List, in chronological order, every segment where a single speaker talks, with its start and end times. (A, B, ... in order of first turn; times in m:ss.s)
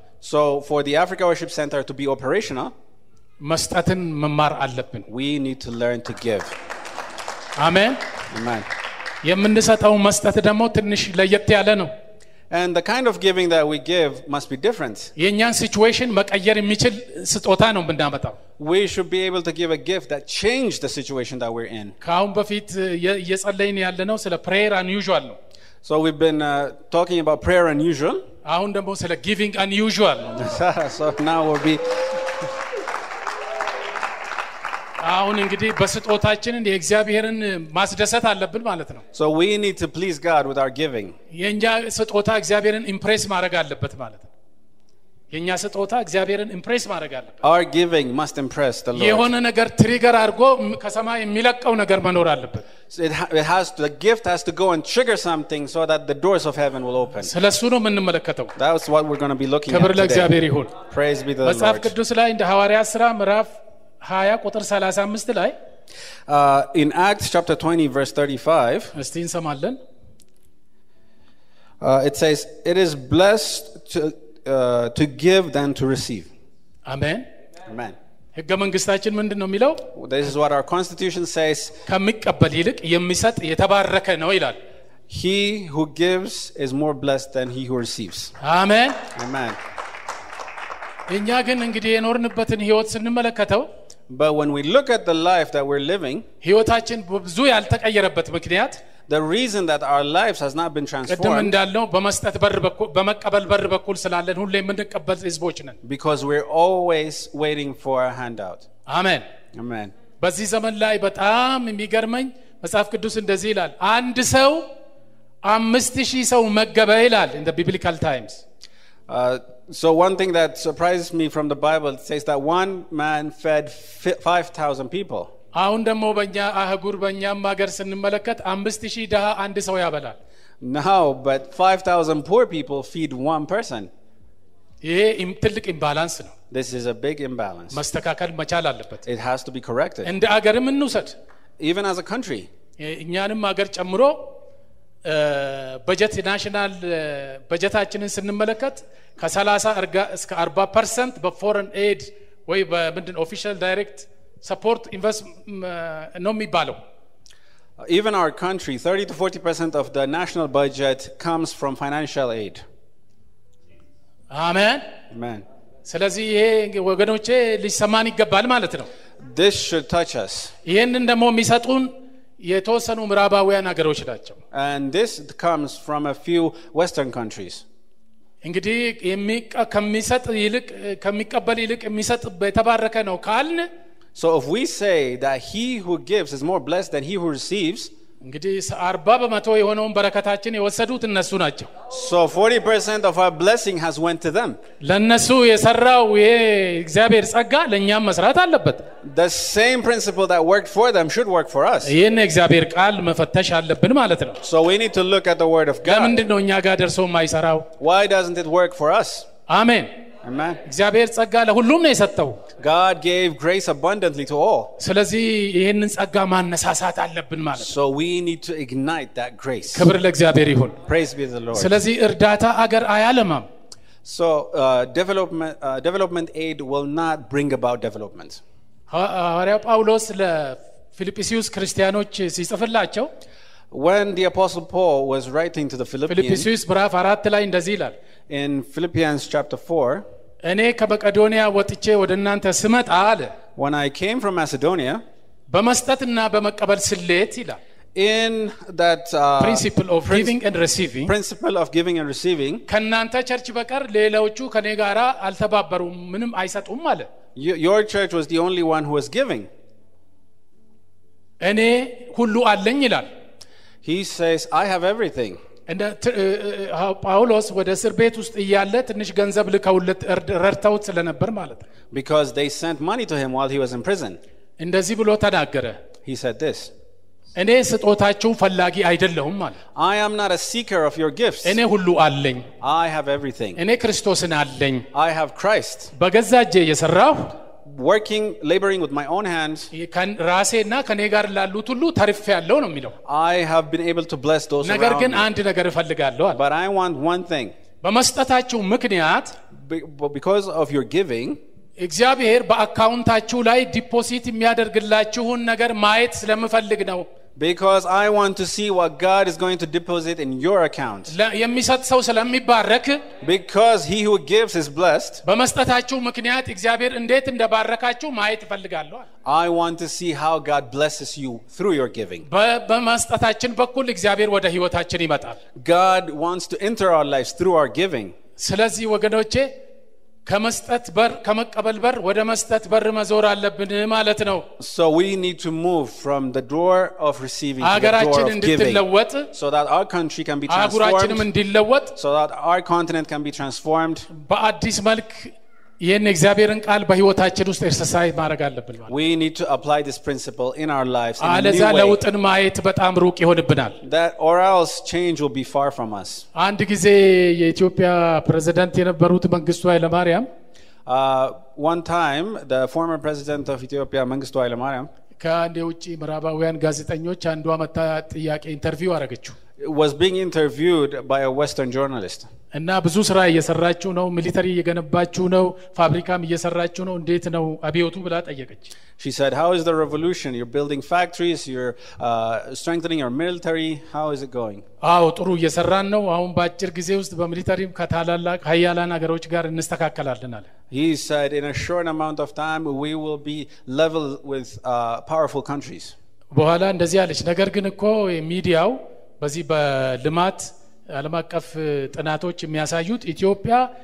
0:00.2-0:02.7 A
0:03.4-0:05.1 B
0:05.1-0:06.5 A
0:07.6-0:08.0 B
0:08.3-0:08.6 A
0:09.2-0:11.9 B
0:12.5-0:15.1 A
0:15.2-0:18.4 B
0:18.6-0:22.0 A
0:22.0-0:25.4 B
0:25.8-0:28.2 A
0:28.4-0:30.5 B
0:30.3-0:32.5 A
0:35.0-0:39.0 B
0:39.1-0:41.2 A
0:41.3-0:44.3 B
0:45.3-0:47.4 B
0:47.4-0:49.3 A
0:48.9-0:52.6 B
0:52.9-0:57.3 A
0:57.2-0:58.5 B
0:58.6-1:01.9 A
0:59.7-1:00.7 B
1:01.4-1:05.5 B
1:06.3-1:08.9 A
1:08.9-1:09.8 B
1:11.8-1:16.3 A
1:16.8-1:17.3 B
1:17.6-1:17.9 A
1:18.3-1:19.9 B
1:19.9-1:21.8 A
1:21.9-1:24.6 B
1:25.1-1:28.3 A
1:28.4-1:29.0 B
1:29.1-1:29.6 A
1:31.1-1:33.7 B
1:34.1-1:36.2 A
1:36.4-1:38.8 B
1:39.1-1:41.5 A
1:41.1-1:45.8 B
1:45.8-1:48.6 A
1:48.9-1:49.2 B
1:49.5-1:49.9 A
1:50.2-1:54.7 B
1:55.4-1:58.4 B
1:59.1-2:05.3 A
2:05.5-2:10.2 B
2:10.6-2:13.9 A
2:14.8-2:16.3 B
2:16.5-2:17.8 A
2:17.7-2:19.0 B
2:19.0-2:20.1 A
2:20.0-2:21.1 B
2:21.6-2:22.5 A
2:22.8-2:24.4 B
2:25.0-2:36.8 B
2:37.8-2:42.6 A
2:44.3-2:44.8 B
2:45.1-2:45.4 A
2:45.8-2:48.9 B
2:49.2-2:50.5 A
2:50.6-2:54.4 B
2:54.5-2:57.6 A
2:58.4-3:03.7 B
3:04.1-3:07.9 A
3:08.2-3:11.7 B
3:11.9-3:14.6 A
3:14.8-3:18.9 B
3:19.0-3:21.9 A
3:21.8-3:24.4 B
3:24.4-3:26.2 A
3:25.8-3:27.7 B
3:27.8-3:29.3 A
3:29.5-3:29.9 B
3:30.2-3:30.6 A
3:30.6-3:32.4 B
3:32.6-3:34.7 A
3:34.8-3:37.7 B
3:37.6-3:39.9 A
3:39.7-3:40.8 B
3:40.8-3:41.8 A
3:41.5-3:43.5 B
3:44.0-3:48.4 A
3:48.9-3:53.1 B
3:53.7-3:56.5 A
3:56.1-3:57.9 B
3:58.3-4:00.0 A
4:00.4-4:03.3 B
4:03.6-4:05.0 A
4:05.5-4:07.6 B
4:07.9-4:10.3 A
4:09.4-4:11.1 B
4:11.0-4:12.6 A
4:12.7-4:17.1 B
4:17.4-4:19.5 A
4:21.4-4:23.1 B
4:23.8-4:25.4 A
4:25.7-4:31.6 B
4:31.9-4:34.2 A
4:34.6-4:35.8 B
4:36.0-4:36.7 A
4:37.4-4:39.6 B
4:39.7-4:41.6 A
4:41.4-4:42.5 B
4:42.6-4:43.6 A
4:43.6-4:44.9 B
4:44.9-4:45.9 A
4:45.9-4:47.4 B
4:47.6-4:49.7 A
4:49.7-4:53.0 B
4:53.0-4:55.3 A
4:54.6-4:56.4 B
4:56.3-4:57.5 A
4:57.8-4:59.4 B
4:59.5-5:01.4 A
5:01.8-5:07.1 B
5:07.4-5:11.1 A
5:11.1-5:13.0 B
5:13.2-5:15.2 A
5:15.2-5:19.1 B
5:19.2-5:22.2 A
5:22.3-5:25.4 B
5:25.6-5:28.1 A
5:28.4-5:29.5 B
5:30.2-5:34.5 B
5:34.6-5:41.3 A
5:37.6-5:39.3 B
5:40.5-5:41.9 B
5:42.0-5:44.1 A
5:44.1-5:48.9 B
5:48.9-5:52.0 A
5:51.2-5:53.8 B
5:53.8-5:56.2 A
5:56.3-6:00.3 B
6:00.8-6:04.9 A
6:05.2-6:09.4 B
6:09.6-6:12.3 A
6:12.5-6:18.7 B
6:19.0-6:24.6 A
6:24.8-6:30.5 B
6:30.7-6:35.9 A
6:36.3-6:43.7 B